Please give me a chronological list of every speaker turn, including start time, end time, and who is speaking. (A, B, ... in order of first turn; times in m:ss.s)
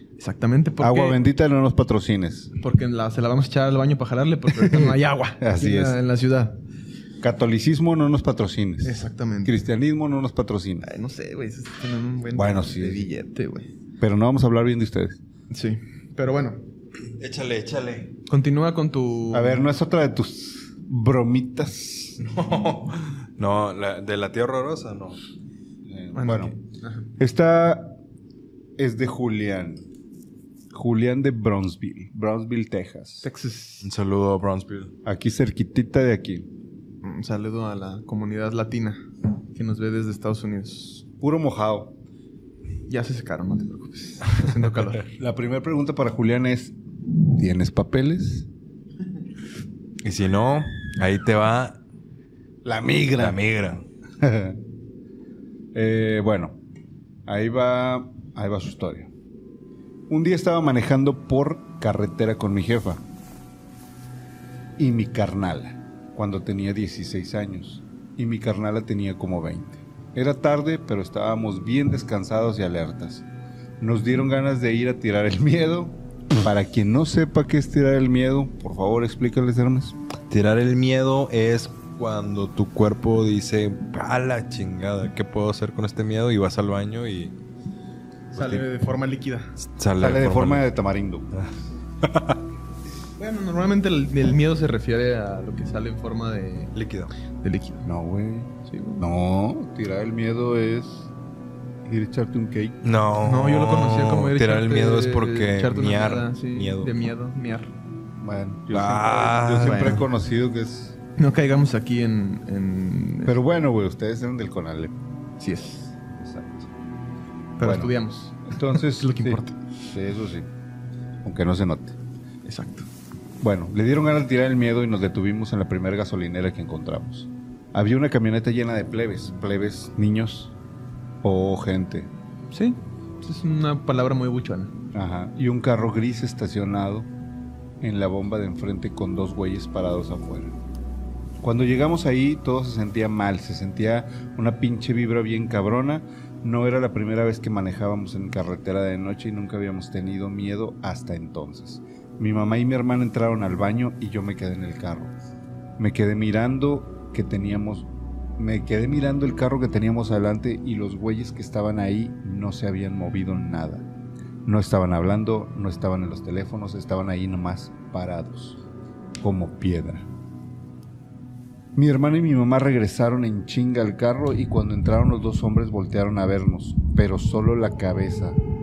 0:00.2-0:01.2 A
0:00.8-0:02.5 B
0:02.6-0:06.6 A
0:04.6-0:06.0 B
0:07.2-0:10.9 B
0:08.8-0:09.6 A
0:10.8-0:13.7 A
0:12.3-0:13.1 B
0:14.0-0:15.2 B
0:15.5-0:16.6 A
0:17.2-0:18.2 C
0:18.3-0:19.7 A
0:19.3-0:22.2 B
0:22.2-0:25.2 C
0:25.9-0:26.6 B
0:26.1-0:27.1 A
0:27.2-0:28.0 B
0:28.8-0:29.8 B
0:30.7-0:33.3 B
0:33.2-0:33.9 A
0:33.8-0:34.9 C
0:35.0-0:36.5 B
0:37.0-0:41.0 A
0:41.2-0:42.0 B
0:42.9-0:45.1 A
0:45.2-0:46.8 B
0:47.3-0:48.5 B
0:50.0-0:51.8 C
0:52.6-0:53.4 B
0:53.2-0:53.8 C
0:54.2-0:54.6 B
0:55.7-0:56.6 B
0:57.3-0:59.1 B
1:00.1-1:03.0 B
1:04.8-1:13.2 B
1:13.8-1:20.0 B
1:20.3-1:27.4 C
1:28.3-1:28.7 C
1:28.3-1:29.5 A
1:29.6-1:30.7 C
1:30.0-1:31.3 B
1:32.0-1:32.4 C
1:33.2-1:36.7 A
1:36.7-1:37.1 C
1:37.4-1:37.9 A
1:37.8-1:41.1 B
1:38.7-1:39.0 A
1:41.8-1:42.8 B
1:42.8-1:46.9 C
1:43.2-1:47.7 A
1:48.2-1:51.0 B
1:48.7-1:50.0 C
1:49.6-1:50.0 A
1:51.2-1:53.4 A
1:53.2-1:55.0 B
1:55.4-1:56.0 A
1:56.1-1:56.7 B
1:57.6-1:59.6 A
1:57.6-1:57.9 B
1:58.4-2:00.5 B
2:01.2-2:02.0 B
2:02.4-2:02.9 A
2:03.4-2:10.5 B
2:11.2-2:12.1 B
2:12.5-2:14.7 A
2:14.9-2:17.1 B
2:17.8-2:20.6 B
2:21.4-2:35.1 B
2:35.8-2:43.9 B
2:44.4-2:48.6 B
2:49.2-2:50.1 B
2:51.8-2:58.4 B